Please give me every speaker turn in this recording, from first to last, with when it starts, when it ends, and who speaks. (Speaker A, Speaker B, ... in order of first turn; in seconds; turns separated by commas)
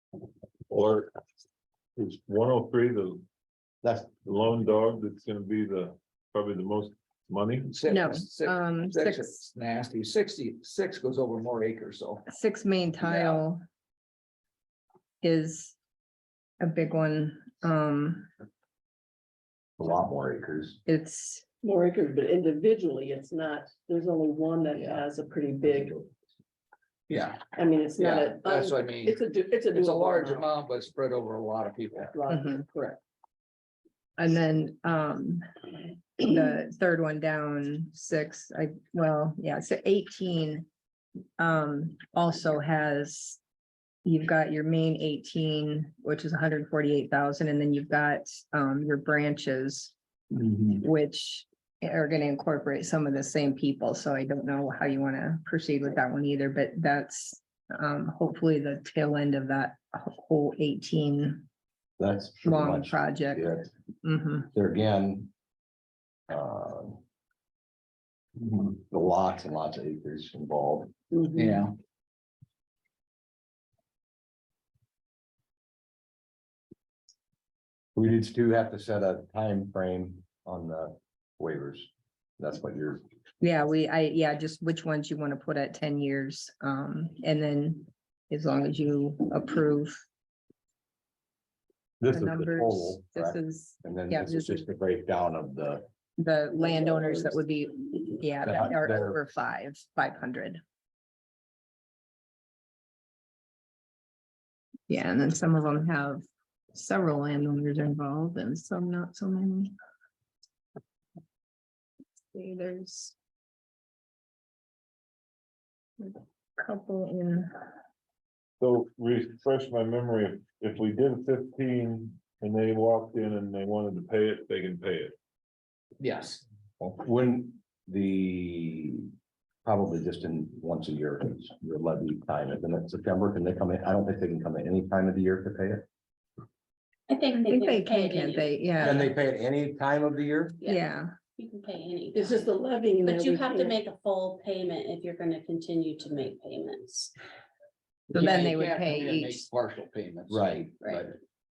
Speaker A: 0.7-1.1, Speaker A: 2.0-3.2, Speaker B: 3.8-4.1, Speaker A: 4.2-7.7, Speaker C: 7.7-12.2, Speaker D: 7.9-9.4, Speaker D: 12.3-13.6, Speaker C: 13.0-13.4, Speaker D: 15.2-15.8, Speaker D: 16.6-18.3, Speaker B: 19.8-20.8, Speaker D: 20.9-21.4, Speaker E: 21.6-26.1, Speaker C: 24.8-25.0, Speaker C: 27.1-32.1, Speaker E: 27.5-30.5, Speaker E: 32.1-33.0, Speaker D: 32.3-32.6, Speaker D: 34.2-35.4, Speaker D: 36.2-40.7, Speaker D: 41.4-43.4, Speaker D: 44.0-49.9, Speaker D: 50.6-61.5, Speaker B: 62.0-63.7, Speaker D: 62.5-64.5, Speaker B: 64.5-65.3, Speaker B: 66.3-67.0, Speaker C: 68.4-68.7, Speaker B: 68.8-70.9, Speaker C: 71.3-71.8, Speaker B: 78.0-83.0, Speaker D: 83.4-90.0, Speaker B: 92.0-95.8, Speaker D: 92.1-94.7, Speaker D: 96.2-100.6, Speaker B: 96.8-97.3, Speaker B: 98.4-99.2, Speaker D: 104.9-106.2, Speaker D: 106.7-109.7, Speaker D: 112.3-113.1, Speaker D: 116.0-117.5, Speaker A: 118.6-125.2, Speaker C: 126.0-126.4, Speaker B: 126.8-129.1, Speaker B: 129.7-135.9, Speaker F: 137.1-139.0, Speaker D: 137.3-139.1, Speaker B: 138.8-140.6, Speaker D: 140.6-141.1, Speaker F: 141.4-142.5, Speaker E: 142.1-143.8, Speaker F: 143.0-147.1, Speaker C: 148.1-151.1, Speaker D: 148.1-149.5, Speaker B: 150.3-151.0